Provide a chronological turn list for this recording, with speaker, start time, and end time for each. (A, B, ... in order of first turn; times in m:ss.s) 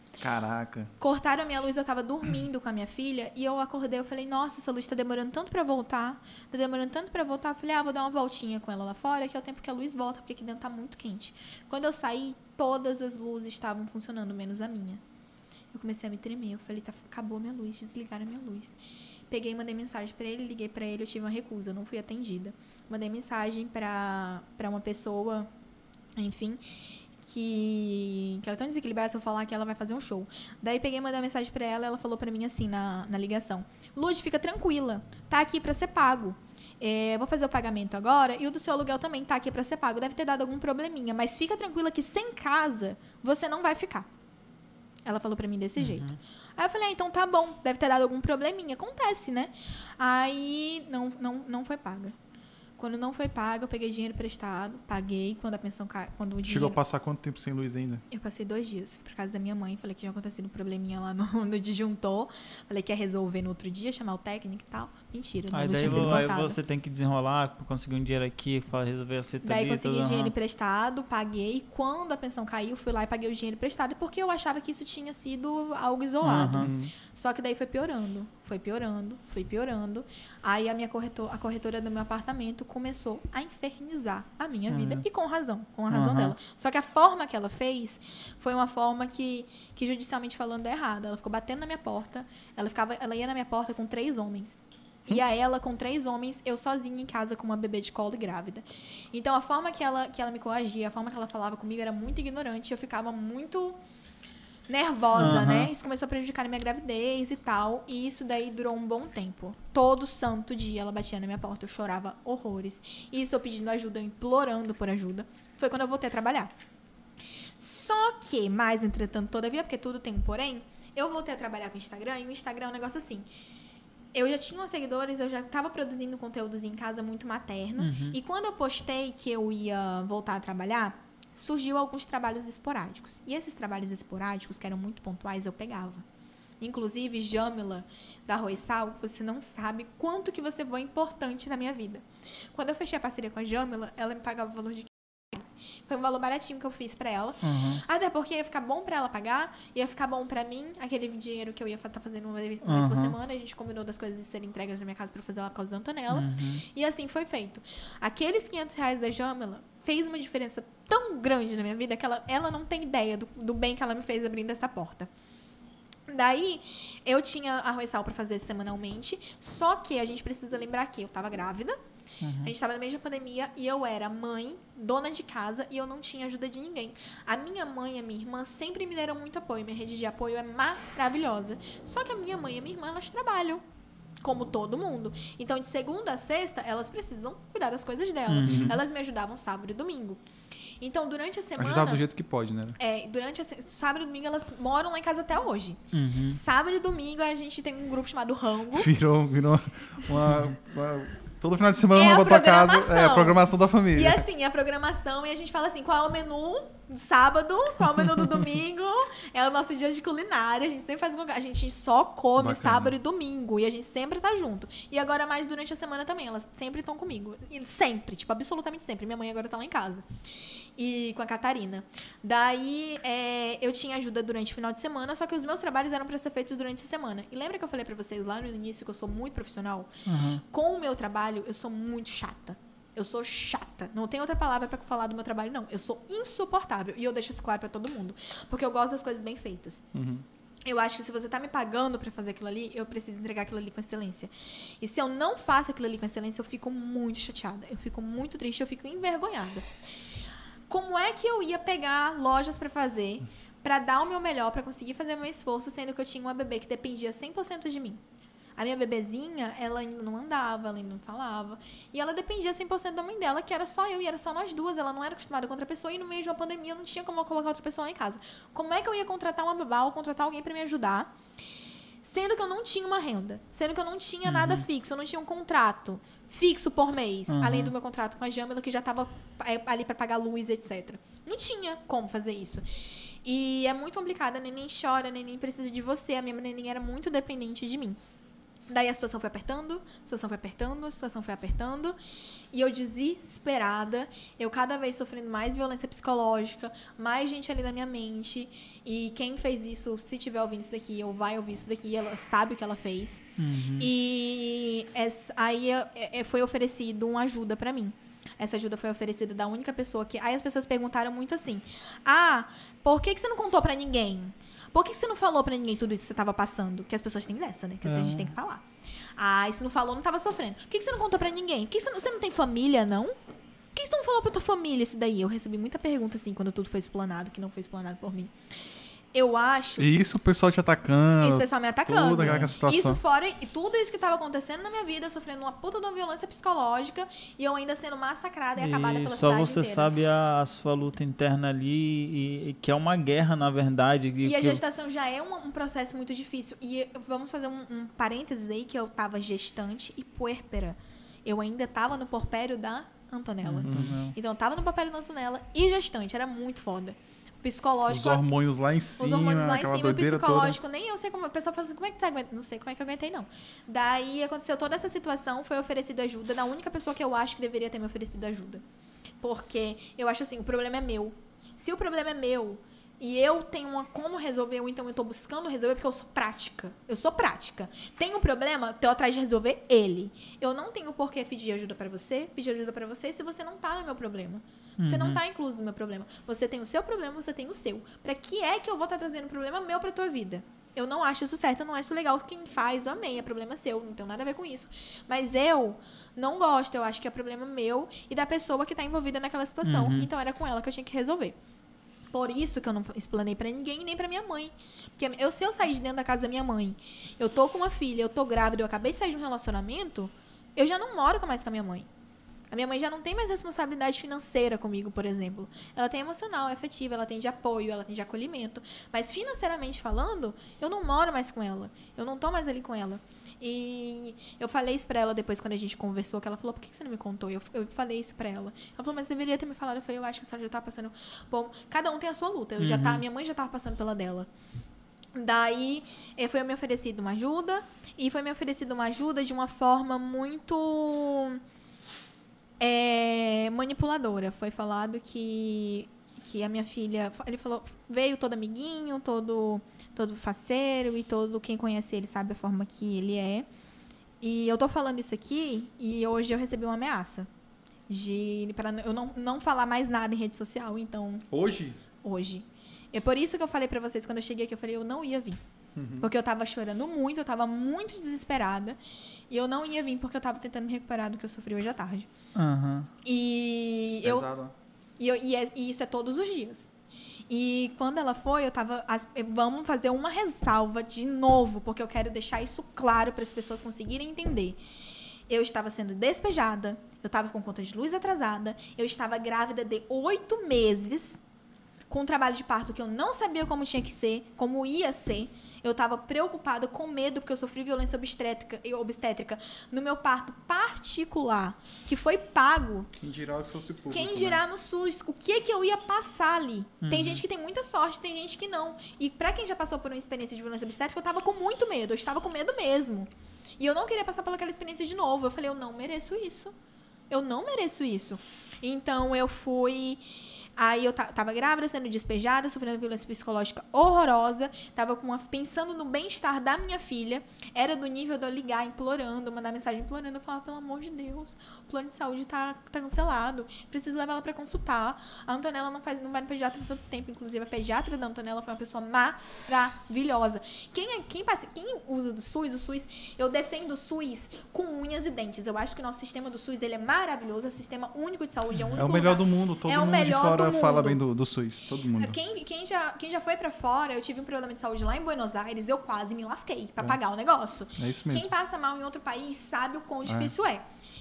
0:00.2-0:00.9 A
0:01.0-0:15.0 B
0:15.7-0:18.8 B
0:19.3-0:25.5 B
0:26.2-0:26.6 B
0:27.2-0:44.1 B
0:45.1-0:52.2 B
0:45.8-0:46.2 C
0:52.8-0:56.8 B
0:56.4-0:58.0 A
0:58.1-1:06.6 B
1:05.5-1:10.3 C
1:05.9-1:06.2 A
1:09.4-1:43.8 B
1:16.2-1:16.7 C
1:16.6-1:16.9 A
1:24.7-1:25.0 C
1:25.9-1:26.4 C
1:44.7-1:56.5 B
1:45.1-1:45.7 C
1:57.6-2:03.3 B
2:04.1-2:16.0 B
2:07.8-2:08.2 C
2:16.6-2:45.1 B
2:27.4-2:27.8 C
2:32.6-2:33.1 C
2:36.1-2:36.6 C
2:46.1-2:51.8 B
2:52.2-2:52.5 C
2:52.4-3:03.6 B
3:04.2-3:10.2 B
3:08.3-3:08.8 C
3:08.4-3:08.8 A
3:10.8-3:12.0 B
3:11.6-3:12.8 A
3:12.8-3:18.9 B
3:15.9-3:16.4 C
3:18.7-3:24.2 A
3:21.9-3:23.4 B
3:23.9-3:40.1 B
3:32.4-3:32.9 A
3:40.8-3:49.9 B
3:50.1-3:50.4 C
3:50.4-3:59.9 B
3:59.9-4:00.2 A
4:00.6-4:09.6 B
4:10.7-4:18.0 B
4:18.6-4:31.1 B
4:32.0-4:42.7 B
4:34.2-4:34.6 C
4:37.3-4:37.7 C
4:43.2-4:48.0 B
4:48.7-4:52.0 B
4:52.5-5:03.3 B
5:03.4-5:03.9 C
5:03.8-5:18.6 B
5:17.8-5:18.3 C
5:19.2-5:23.1 B
5:23.7-5:28.3 B
5:29.1-5:29.9 B
5:29.8-5:33.0 A
5:31.2-5:39.9 B
5:32.2-5:32.6 C
5:38.6-5:44.6 C
5:44.2-5:58.3 B
5:53.4-5:54.2 C
5:53.6-5:53.9 A
5:57.9-6:00.6 A
5:59.0-6:08.6 B
6:09.2-6:41.4 B
6:24.8-6:25.2 C
6:39.6-6:40.1 C
6:42.1-6:51.9 B
6:52.5-7:14.3 B
7:12.6-7:13.0 C
7:15.2-7:21.4 B
7:22.6-7:33.5 B
7:34.2-7:37.3 B
7:37.9-7:41.2 B
7:41.3-7:41.8 A
7:42.0-7:45.4 B
7:45.7-7:46.1 A
7:46.0-7:48.8 B
7:49.3-7:52.1 B
7:52.4-7:52.9 C
7:53.0-7:54.3 B
7:54.0-7:54.5 A
7:55.0-7:56.7 B
7:57.3-8:04.6 B
8:05.3-8:11.2 B
8:11.9-8:22.9 B
8:23.0-8:24.4 A
8:23.9-8:36.5 B
8:26.8-8:27.2 C
8:37.1-8:40.0 B
8:40.6-9:11.0 B
9:08.7-9:12.2 A
9:11.9-9:20.6 B
9:17.8-9:18.3 A
9:20.1-9:20.3 A